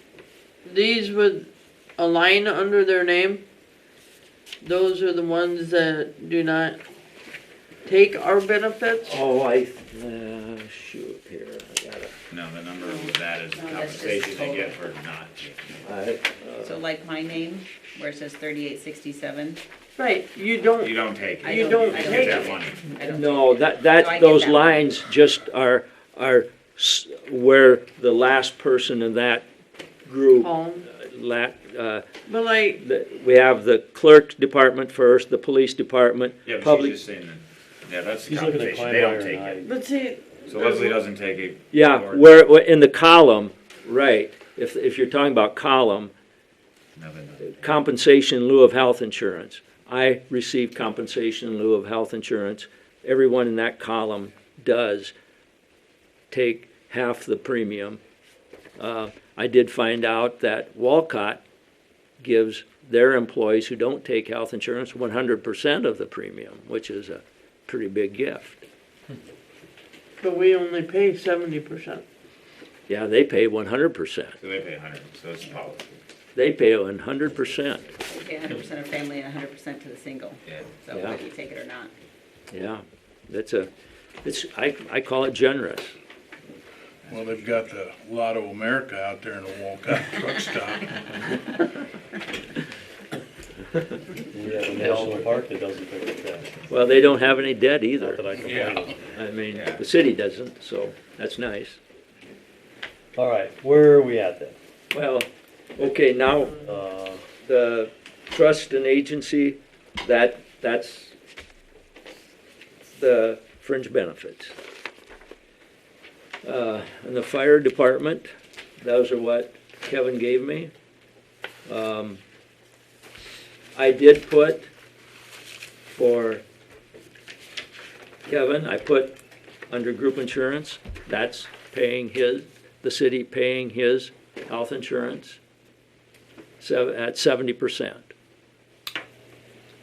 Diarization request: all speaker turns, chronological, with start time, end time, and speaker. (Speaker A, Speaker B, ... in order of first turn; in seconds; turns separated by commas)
Speaker A: 0.6-3.4, Speaker A: 4.6-6.8, Speaker A: 7.8-9.1, Speaker B: 9.0-12.2, Speaker C: 12.3-15.9, Speaker D: 12.8-14.8, Speaker B: 15.8-16.8, Speaker D: 16.6-19.6, Speaker A: 20.0-22.5, Speaker C: 20.8-22.8, Speaker D: 21.4-24.9, Speaker B: 22.9-29.5, Speaker B: 30.0-32.0, Speaker A: 30.4-30.9, Speaker A: 32.3-32.8, Speaker B: 32.7-37.0, Speaker C: 36.5-39.6, Speaker E: 38.2-39.7, Speaker A: 39.6-41.0, Speaker C: 40.5-42.4, Speaker B: 41.7-46.1, Speaker C: 47.0-47.8, Speaker B: 47.4-55.1, Speaker B: 56.3-58.0, Speaker B: 58.8-61.4, Speaker B: 62.2-68.6, Speaker A: 70.2-72.0, Speaker B: 72.9-74.4, Speaker C: 74.4-76.0, Speaker B: 76.3-77.8, Speaker D: 78.1-81.9, Speaker C: 80.5-80.8, Speaker B: 80.9-81.2, Speaker B: 82.5-83.7, Speaker B: 84.2-85.9, Speaker F: 87.1-91.5, Speaker E: 94.2-96.7, Speaker B: 94.8-95.3, Speaker B: 96.7-101.8, Speaker E: 98.0-99.0, Speaker C: 98.5-98.8, Speaker C: 99.5-99.8, Speaker E: 103.1-104.5, Speaker B: 104.9-106.7, Speaker E: 106.6-107.2, Speaker B: 107.4-111.1, Speaker B: 112.9-114.5, Speaker B: 116.4-120.7, Speaker B: 121.7-122.2, Speaker B: 123.7-124.7, Speaker B: 125.9-126.4, Speaker B: 128.2-129.2, Speaker B: 129.7-135.4, Speaker B: 136.6-138.1